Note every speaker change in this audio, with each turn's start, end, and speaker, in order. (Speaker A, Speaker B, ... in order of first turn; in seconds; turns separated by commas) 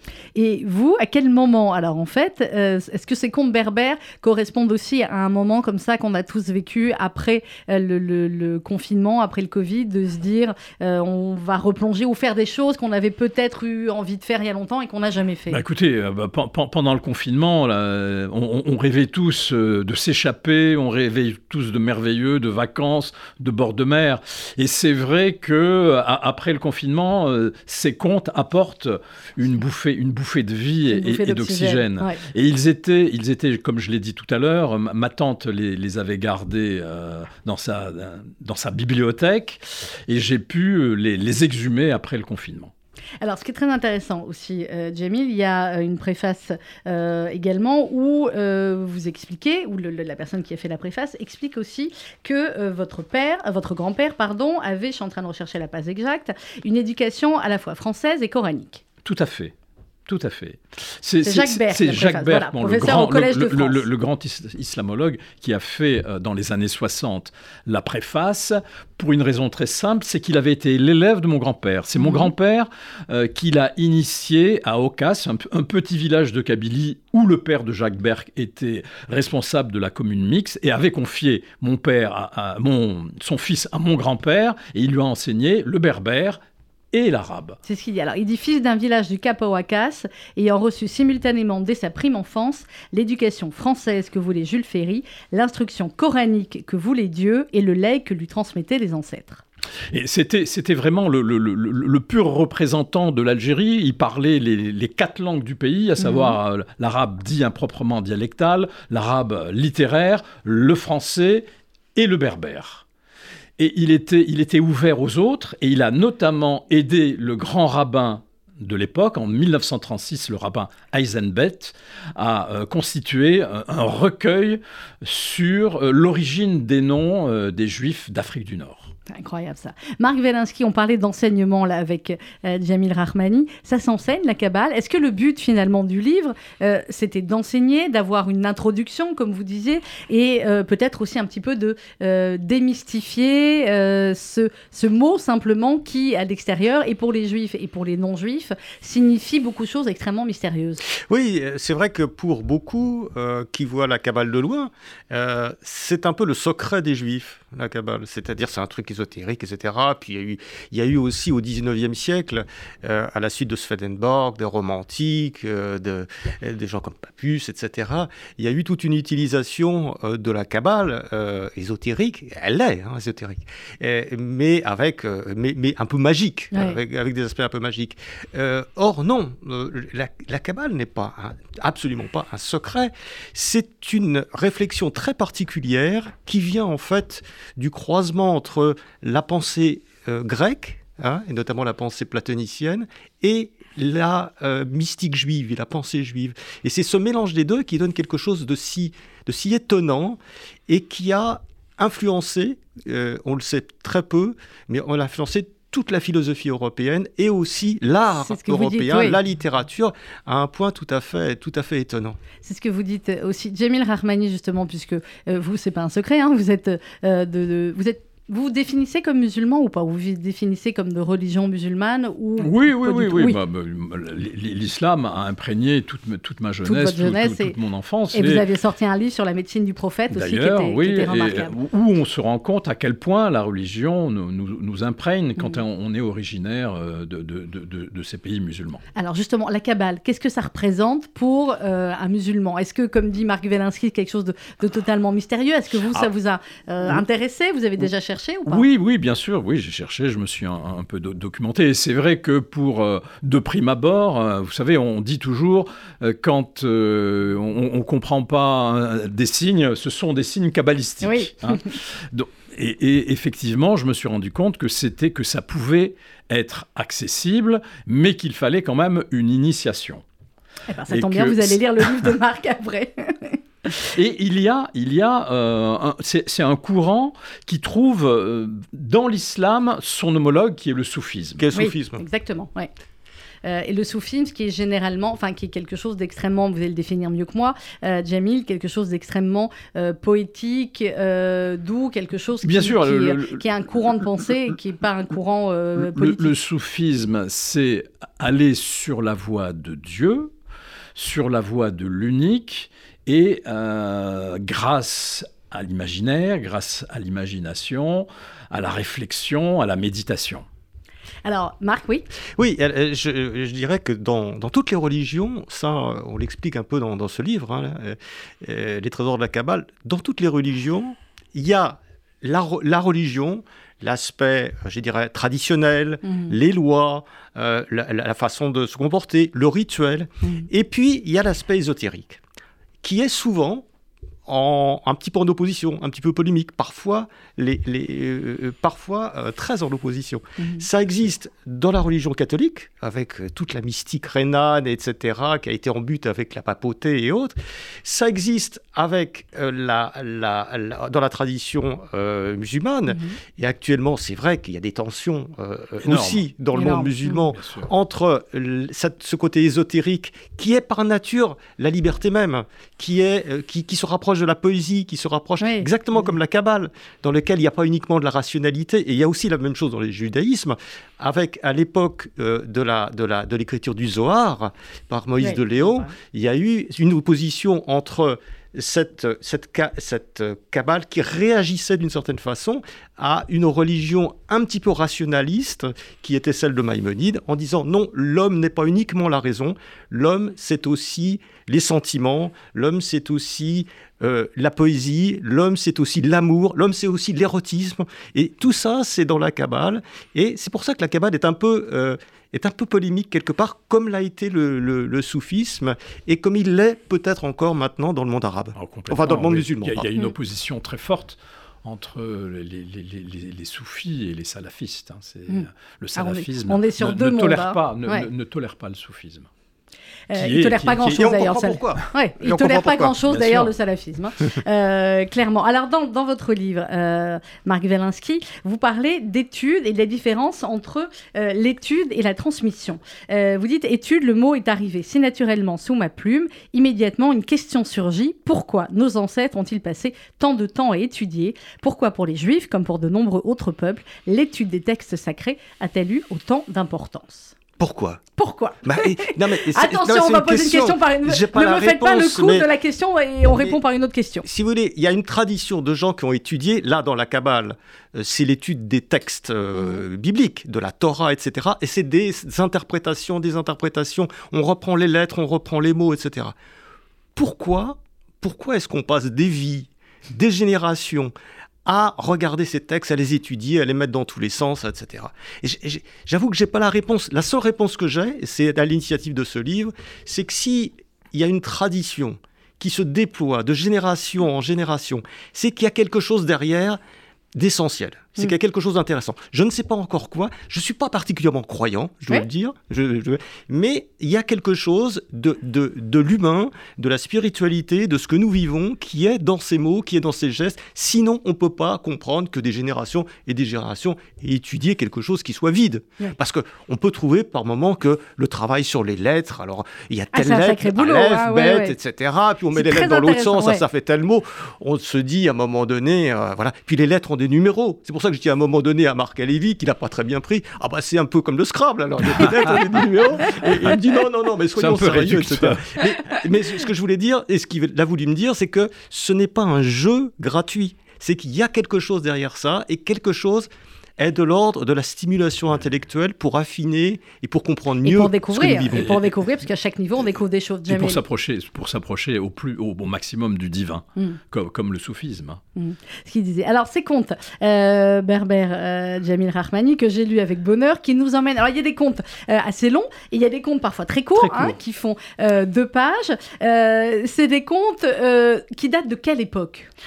Speaker A: 0.4-15.6, Speaker B: 15.5-42.7, Speaker A: 30.9-32.2, Speaker A: 43.2-58.8, Speaker B: 59.0-59.5, Speaker B: 60.1-86.4, Speaker A: 61.2-63.8, Speaker A: 72.0-72.3, Speaker B: 86.9-87.6, Speaker A: 87.7-99.4, Speaker B: 99.9-112.8, Speaker A: 106.0-106.4, Speaker B: 113.6-128.9, Speaker A: 129.1-150.8, Speaker C: 150.9-212.2, Speaker A: 208.2-209.2, Speaker A: 212.4-223.4, Speaker B: 222.4-228.4, Speaker A: 226.6-227.6, Speaker A: 228.1-231.5, Speaker B: 230.1-238.8, Speaker A: 239.0-248.7, Speaker B: 248.5-270.0, Speaker A: 261.0-261.7, Speaker A: 270.7-273.4, Speaker B: 270.9-272.1, Speaker B: 273.9-281.4, Speaker C: 281.4-282.0, Speaker A: 281.5-282.7, Speaker A: 283.4-296.3, Speaker B: 292.4-294.1, Speaker B: 295.8-300.3, Speaker B: 300.9-310.5, Speaker A: 311.2-312.1, Speaker C: 312.4-332.2, Speaker A: 326.0-326.3, Speaker C: 332.8-333.6, Speaker C: 334.2-409.9, Speaker A: 340.4-340.6, Speaker A: 352.9-353.2, Speaker B: 355.8-356.2, Speaker A: 356.5-357.2, Speaker B: 357.4-357.7, Speaker A: 365.4-365.7, Speaker A: 375.2-375.9, Speaker B: 408.6-419.3, Speaker A: 415.3-418.1, Speaker A: 420.1-447.4, Speaker B: 420.1-421.0, Speaker C: 420.8-423.1, Speaker B: 423.1-423.5, Speaker C: 447.6-448.0, Speaker A: 448.2-454.2, Speaker C: 448.6-452.5, Speaker C: 453.3-453.6, Speaker C: 454.2-466.4, Speaker C: 467.1-471.1, Speaker C: 471.6-486.8, Speaker C: 487.4-539.0, Speaker A: 510.1-511.7, Speaker A: 512.5-513.6, Speaker B: 524.5-526.2, Speaker A: 537.8-541.0, Speaker B: 538.7-539.0, Speaker B: 540.7-545.4, Speaker A: 545.6-559.7, Speaker B: 554.2-554.6